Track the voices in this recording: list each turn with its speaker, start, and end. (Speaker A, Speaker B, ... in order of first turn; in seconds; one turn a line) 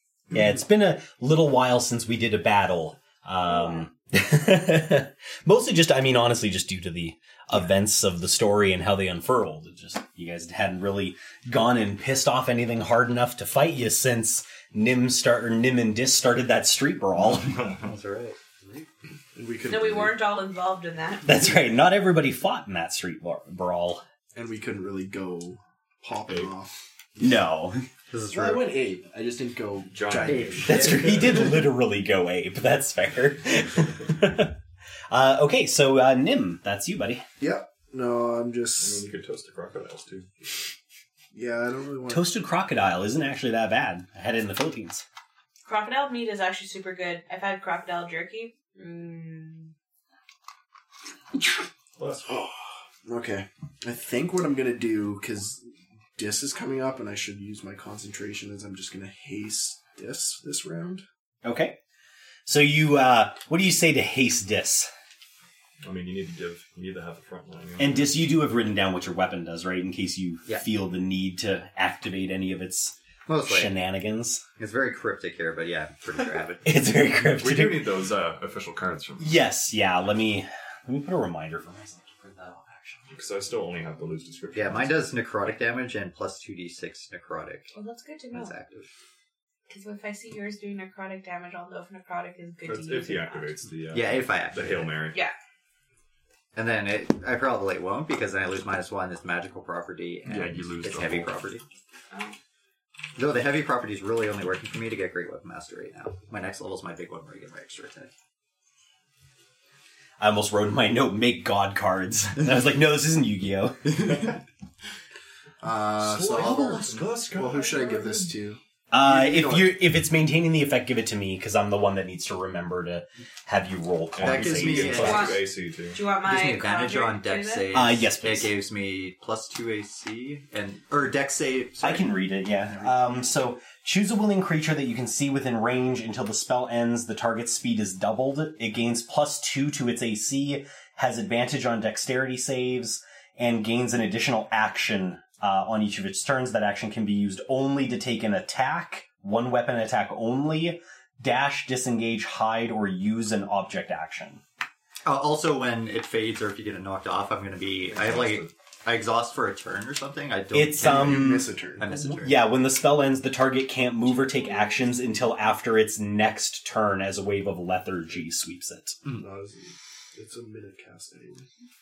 Speaker A: 0.3-17.6
Speaker B: 3.5-3.9
Speaker C: 17.3-17.9
Speaker D: 17.8-18.9
Speaker E: 19.3-20.2
Speaker B: 19.7-21.4
Speaker A: 21.2-24.0
Speaker E: 24.3-27.4
Speaker C: 26.3-26.5
Speaker A: 27.2-27.8
Speaker D: 28.1-28.7
Speaker E: 28.3-31.3
Speaker C: 29.9-31.5
Speaker D: 30.2-31.6
Speaker A: 30.7-34.5
Speaker A: 35.1-37.2
Speaker E: 37.4-39.0
Speaker C: 38.8-40.3
Speaker E: 41.3-42.3
Speaker A: 42.1-45.0
Speaker B: 45.6-49.7
Speaker C: 52.0-52.5
Speaker E: 53.0-61.0
Speaker A: 61.4-61.8
Speaker A: 62.5-64.9
Speaker C: 65.8-68.2
Speaker A: 67.8-74.4
Speaker D: 73.3-73.7
Speaker D: 74.6-76.7
Speaker A: 76.6-77.9
Speaker C: 77.4-79.4
Speaker A: 79.2-83.0
Speaker C: 83.1-85.1
Speaker D: 84.5-87.7
Speaker B: 87.7-88.5
Speaker D: 88.3-88.9
Speaker B: 89.7-93.5
Speaker C: 92.6-95.2
Speaker D: 93.9-95.0
Speaker D: 96.5-101.6
Speaker C: 100.2-101.3
Speaker B: 102.1-102.3
Speaker D: 103.2-108.1
Speaker A: 110.2-114.2
Speaker E: 115.6-118.6
Speaker C: 116.0-118.3
Speaker D: 116.3-117.0
Speaker A: 118.9-125.3
Speaker D: 119.1-119.7
Speaker C: 124.2-126.0
Speaker D: 124.2-125.4
Speaker B: 124.9-127.7
Speaker D: 126.2-132.2
Speaker A: 127.7-128.5
Speaker A: 131.8-154.4
Speaker D: 155.0-162.4
Speaker C: 157.9-158.5
Speaker A: 160.5-169.0
Speaker E: 160.8-161.9
Speaker B: 164.1-164.9
Speaker E: 169.1-171.4